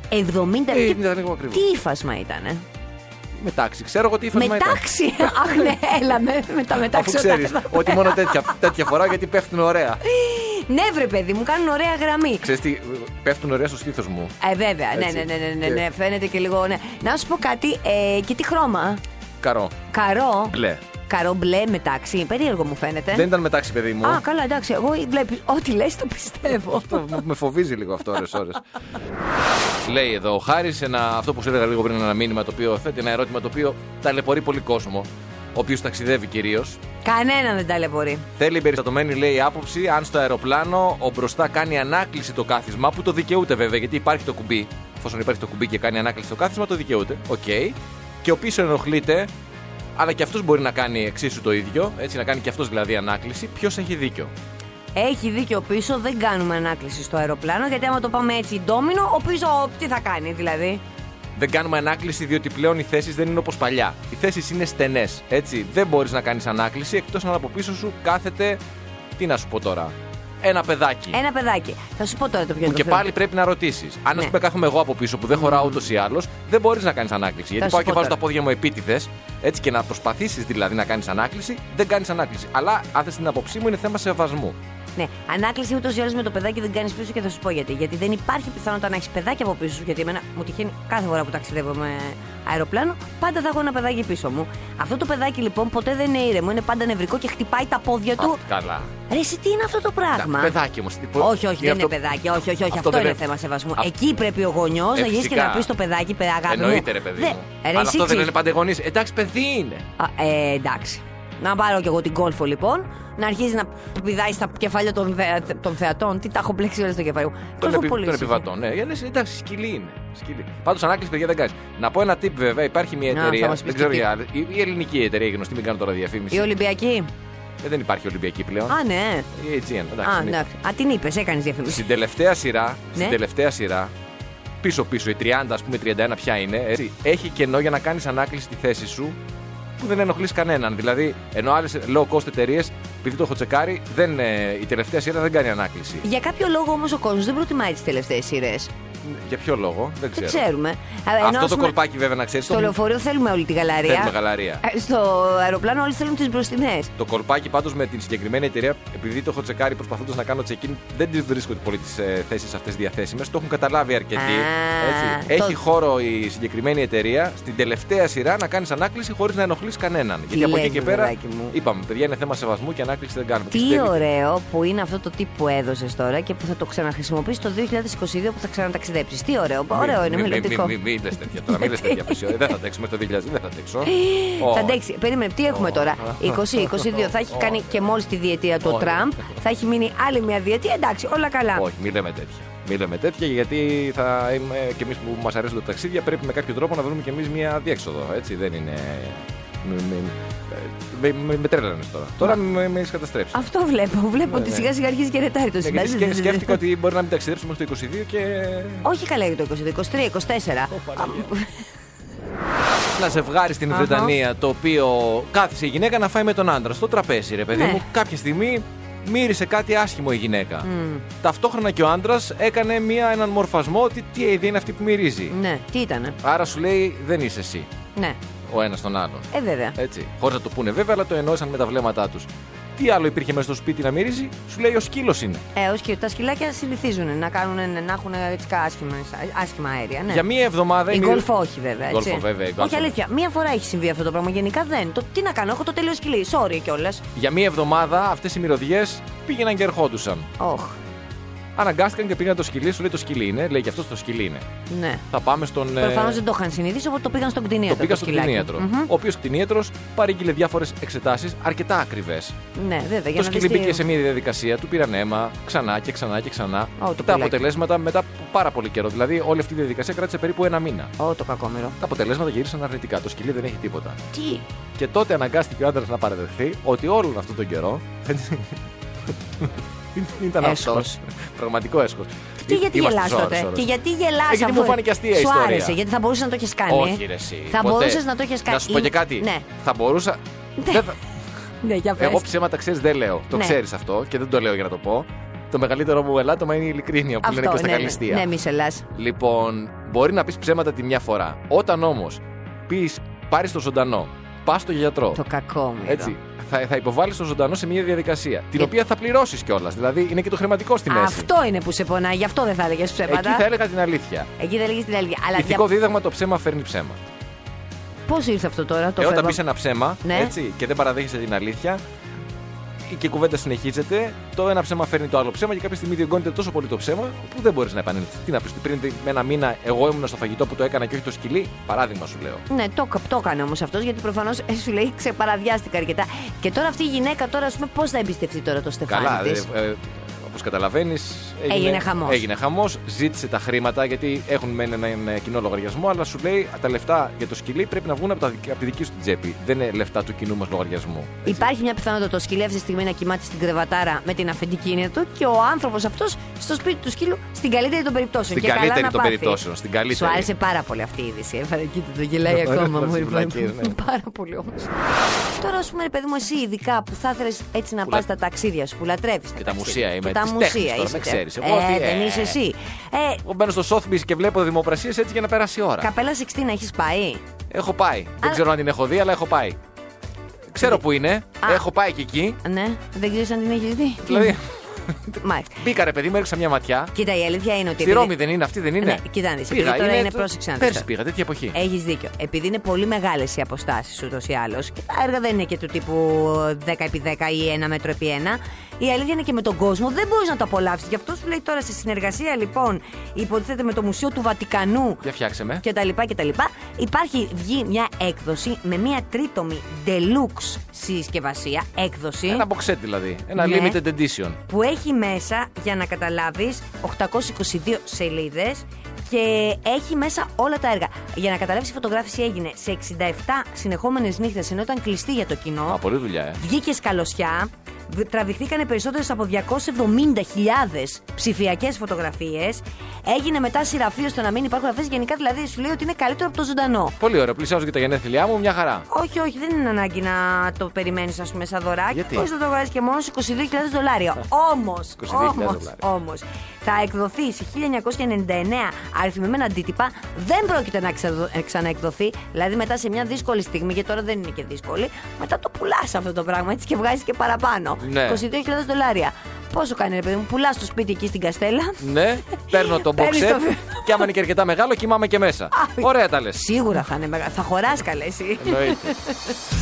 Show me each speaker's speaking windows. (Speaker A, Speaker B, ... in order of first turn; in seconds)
Speaker A: 0.1-2.6, 4.3-8.6, 10.0-12.5, 14.4-19.0, 19.9-20.6, 21.1-23.3, 24.0-27.2, 37.0-38.2, 54.9-60.8, 71.1-73.1, 75.4-75.8, 77.6-78.2, 85.0-98.4, 99.1-100.5, 101.2-108.3, 110.0-118.5, 123.1-124.1, 126.3-127.1, 128.7-129.3, 130.0-131.9, 146.0-148.7, 150.1-151.7, 152.5-156.9, 164.2-165.6, 170.3-171.6, 173.5-180.7, 181.4-182.3, 183.8-191.6, 203.3-206.6, 208.8-211.6, 213.7-214.1, 217.5-217.8, 220.6-221.0, 225.3-226.2, 229.3-229.8, 235.5-240.2, 240.9-247.0, 250.4-250.8, 254.7-255.0, 255.8-258.9, 262.5-263.8, 266.8-267.4, 271.0-271.8, 274.1-274.4, 280.4-281.0, 282.4-289.4, 290.6-290.9, 291.6-292.3, 297.2-298.9, 305.1-306.1, 310.9-313.4, 314.4-315.6, 318.1-319.4, 320.0-320.3, 332.5-339.4, 341.5-342.2, 351.2-373.2, 375.8-377.2, 382.4-384.4, 385.1-385.6, 386.9-388.1, 388.8-390.9, 391.5-405.0, 405.6-412.4, 413.4-413.8, 414.5-425.8, 426.4-437.0, 438.9-464.1, 465.5-469.2
Speaker B: 0.7-1.6, 3.4-4.8, 6.8-10.0, 12.4-14.3, 14.9-15.8, 19.4-19.8, 20.5-20.8, 23.1-24.2, 26.6-28.6, 29.8-36.8, 38.4-49.3, 50.0-54.3, 61.3-68.6, 69.2-71.2, 72.6-84.5, 98.2-98.9, 100.2-102.0, 102.7-103.2, 104.9-105.7, 106.5-109.8, 117.6-126.5, 127.6-128.8, 129.3-130.4, 131.7-133.9, 134.6-139.2, 139.8-146.0, 149.0-150.4, 151.2-152.8, 153.8-154.6, 157.0-174.0, 179.7-184.8, 185.5-187.7, 188.6-189.0, 191.5-203.3, 204.2-204.7, 205.6-208.8, 210.7-211.3, 212.9-220.7, 221.2-225.3, 226.2-227.7, 228.5-235.4, 240.1-241.3, 241.9-242.9, 247.2-250.3, 251.6-254.4, 255.1-256.2, 257.7-262.3, 263.1-270.9, 271.8-274.0, 274.8-278.6, 279.4-283.7, 284.3-285.8, 286.7-291.0, 292.0-298.3, 298.9-305.2, 305.9-311.3, 313.1-314.3, 315.3-317.0, 319.0-321.8, 322.9-332.4, 338.9-351.4, 358.3-360.3, 362.3-363.8, 369.4-372.4, 373.2-375.9, 377.5-379.6, 380.5-382.4, 384.0-384.4, 385.6-386.9, 387.8-391.6, 405.0-405.6, 412.3-414.4, 425.7-426.4, 437.0-438.9, 441.9-442.3, 445.0-445.8, 457.8-458.2, 461.8-466.5, 468.4-468.9